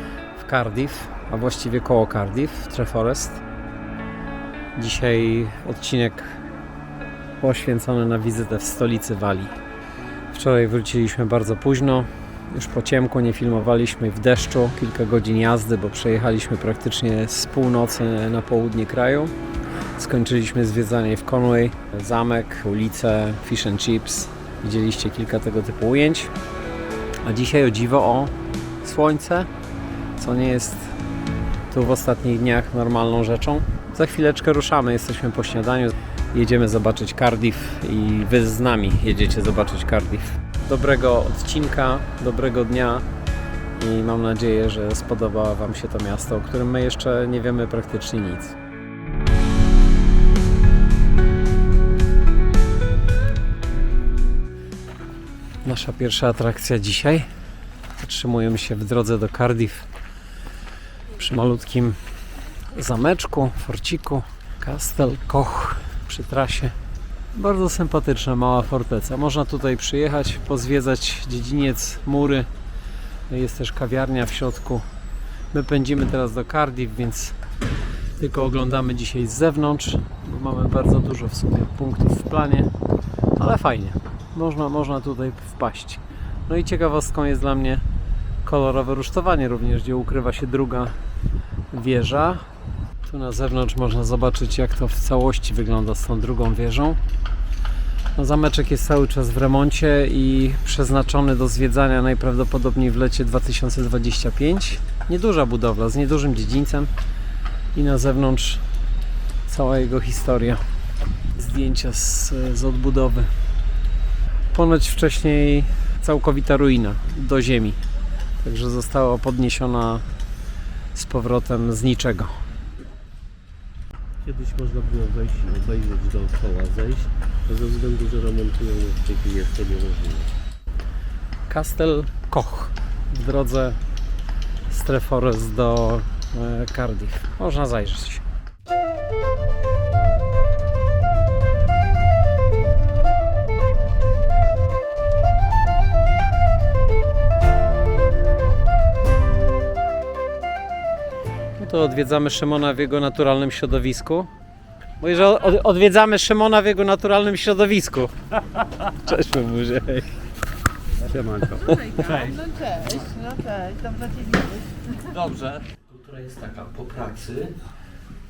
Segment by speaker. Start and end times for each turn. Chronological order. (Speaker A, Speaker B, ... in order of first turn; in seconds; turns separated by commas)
Speaker A: 0.4-3.4, Speaker A: 4.8-6.4, Speaker A: 7.4-9.5, Speaker A: 10.3-19.3, Speaker A: 20.0-26.3, Speaker A: 27.2-29.5, Speaker A: 30.2-30.9, Speaker A: 31.7-43.0, Speaker A: 43.8-48.6, Speaker A: 55.6-57.3, Speaker A: 58.0-59.9, Speaker A: 61.1-62.0, Speaker A: 62.7-66.8, Speaker A: 67.3-72.5, Speaker A: 73.3-74.8, Speaker A: 75.5-77.4, Speaker A: 78.2-82.7, Speaker A: 83.4-87.8, Speaker A: 88.5-91.0, Speaker A: 91.7-92.4, Speaker A: 93.0-97.0, Speaker A: 98.2-106.9, Speaker A: 107.8-108.6, Speaker A: 109.5-110.6, Speaker A: 111.3-113.3, Speaker A: 114.5-117.8, Speaker A: 118.4-120.0, Speaker A: 121.0-122.4, Speaker B: 124.2-130.3, Speaker A: 131.5-133.8, Speaker A: 134.7-138.2, Speaker A: 151.6-154.3, Speaker A: 155.0-158.1, Speaker A: 158.8-160.2, Speaker B: 161.0-162.0, Speaker A: 161.5-162.3, Speaker C: 161.7-164.9, Speaker A: 165.1-165.6, Speaker B: 165.7-167.6